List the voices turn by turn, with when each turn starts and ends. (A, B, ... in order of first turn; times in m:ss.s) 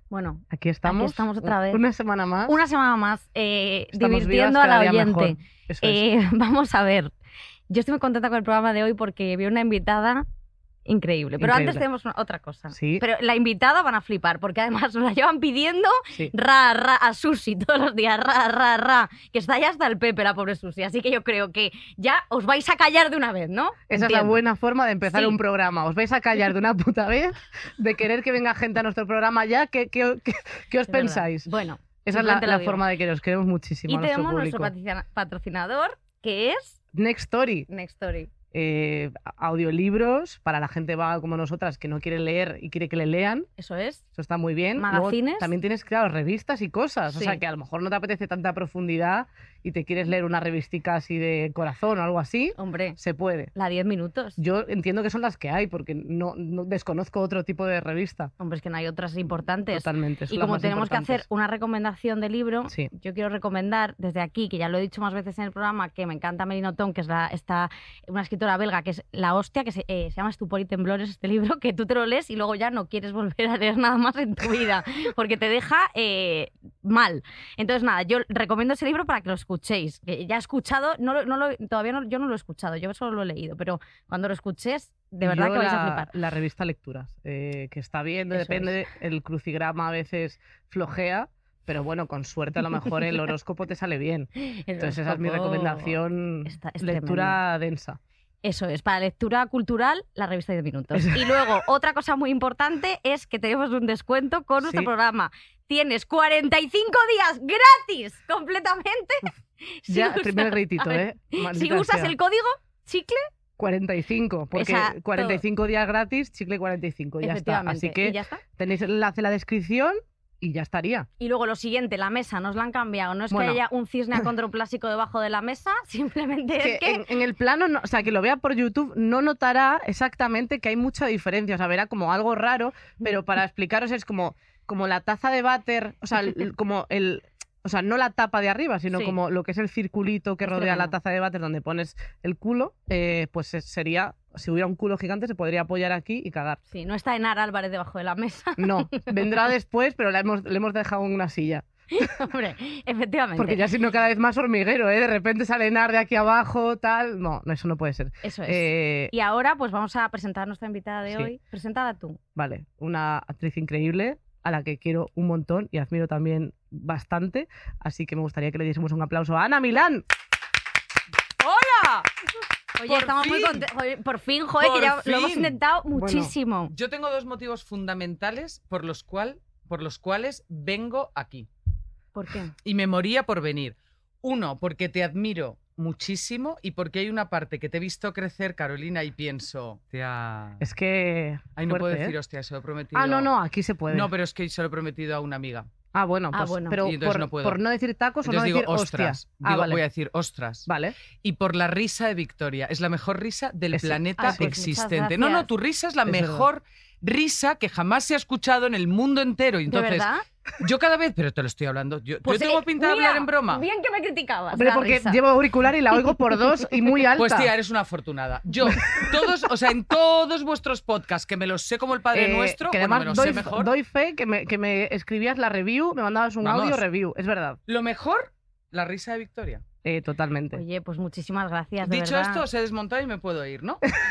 0:00.1-0:01.8 A
0:00.5-0:02.6 B
0:02.5-0:07.1 A
0:03.9-0:06.0 B
0:07.7-0:10.2 A
0:10.9-0:24.4 A
0:11.4-0:11.8 B
0:12.7-0:13.0 B
0:23.9-0:31.5 B
0:25.0-0:25.4 A
0:30.9-0:32.8 A
0:32.0-0:34.7 B
0:33.9-0:36.8 A
0:36.9-0:37.7 B
0:37.7-0:38.3 A
0:38.5-0:43.5 B
0:43.6-0:44.0 A
0:44.2-0:53.5 B
0:44.8-0:45.5 A
0:47.1-0:47.4 A
0:52.6-0:53.0 A
0:53.6-0:54.4 A
0:54.4-0:58.3 B
0:58.4-1:26.1 A
0:59.7-1:01.2 B
1:25.2-1:38.0 B
1:28.3-1:28.7 A
1:34.4-1:37.4 A
1:38.4-1:53.3 A
1:40.9-1:41.6 B
1:44.6-1:44.9 B
1:49.9-1:52.1 B
1:53.6-2:01.1 B
1:54.6-1:55.4 A
1:57.2-1:58.4 A
2:01.2-2:07.0 A
2:03.3-2:03.6 B
2:06.6-2:26.6 B
2:20.4-2:20.9 A
2:26.7-2:29.2 A
2:28.6-2:32.1 B
2:31.9-2:33.6 A
2:33.4-2:39.1 B
2:38.2-2:42.2 A
2:42.4-2:50.0 B
2:51.4-2:52.1 C
2:52.8-2:56.7 A
2:52.8-2:53.7 C
2:54.6-2:55.5 C
2:56.0-2:56.3 B
2:56.7-3:01.5 C
3:02.2-3:02.5 A
3:02.6-3:10.6 C
3:10.6-3:12.1 B
3:11.6-3:13.3 C
3:12.9-3:14.1 B
3:13.9-3:15.7 C
3:15.9-3:19.8 B
3:16.3-3:16.8 A
3:16.8-3:17.6 C
3:18.2-3:20.7 C
3:20.7-3:21.0 B
3:21.2-3:30.1 C
3:23.7-3:24.5 B
3:24.2-3:25.5 A
3:26.1-3:26.5 B
3:29.7-3:30.2 A
3:30.6-3:33.6 C
3:32.2-3:35.2 A
3:34.5-3:37.5 B
3:37.2-3:43.7 C
3:42.1-3:47.6 B
3:46.4-3:46.8 C
3:47.7-3:49.6 C
3:49.8-3:50.6 B
3:50.5-3:52.4 A
3:51.8-3:53.8 C